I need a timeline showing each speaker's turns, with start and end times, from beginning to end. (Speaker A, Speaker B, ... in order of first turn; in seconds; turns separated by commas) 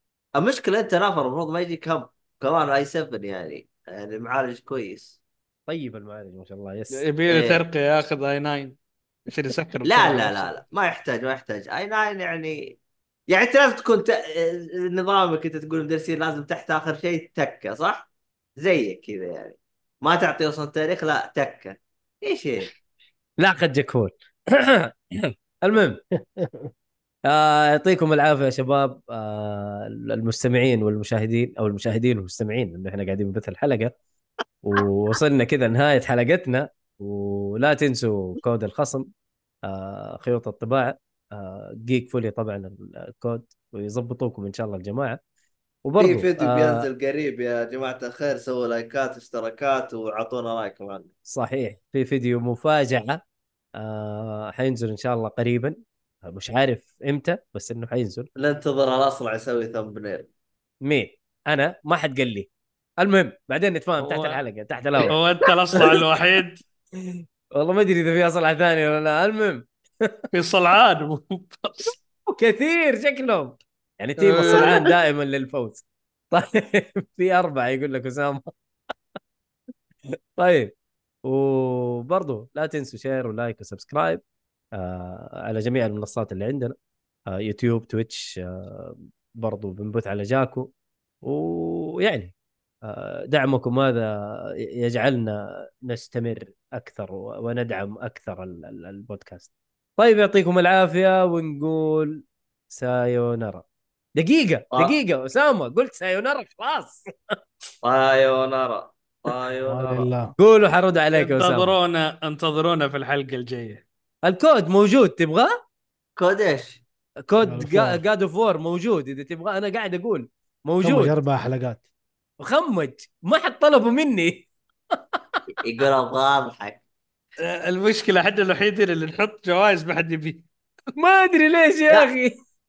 Speaker A: 0.3-5.2, Speaker B: 5.7-7.0, Speaker C: 7.0-8.8, Speaker A: 7.3-7.6, Speaker C: 9.3-10.5, Speaker A: 9.8-12.8, Speaker A: 13.3-22.7, Speaker B: 23.4-26.0, Speaker D: 26.4-26.7, Speaker B: 27.3-33.9, Speaker B: 34.6-39.1, Speaker B: 39.6-45.2, Speaker B: 45.9-46.9, Speaker A: 46.0-51.1, Speaker B: 51.3-53.2, Speaker B: 53.8-58.3, Speaker A: 58.4-60.3, Speaker B: 60.8-62.5, Speaker B: 63.0-65.2, Speaker A: 64.1-64.4, Speaker C: 65.1-66.6, Speaker B: 67.0-70.2, Speaker C: 70.3-72.0, Speaker B: 72.3-78.5, Speaker C: 74.2-74.9, Speaker B: 80.1-80.7, Speaker B: 81.2-84.2, Speaker B: 84.8-86.8, Speaker B: 87.3-90.7, Speaker B: 91.2-92.3, Speaker B: 92.8-103.6, Speaker B: 104.2-107.4, Speaker A: 107.8-109.8, Speaker D: 109.7-110.3, Speaker B: 109.8-111.7, Speaker C: 111.1-113.8, Speaker B: 114.2-115.5, Speaker A: 116.2-116.8, Speaker B: 117.3-121.2, Speaker D: 117.4-118.0, Speaker D: 120.8-121.8, Speaker B: 122.4-125.4, Speaker A: 125.6-126.8, Speaker C: 127.5-130.4, Speaker B: 131.0-132.3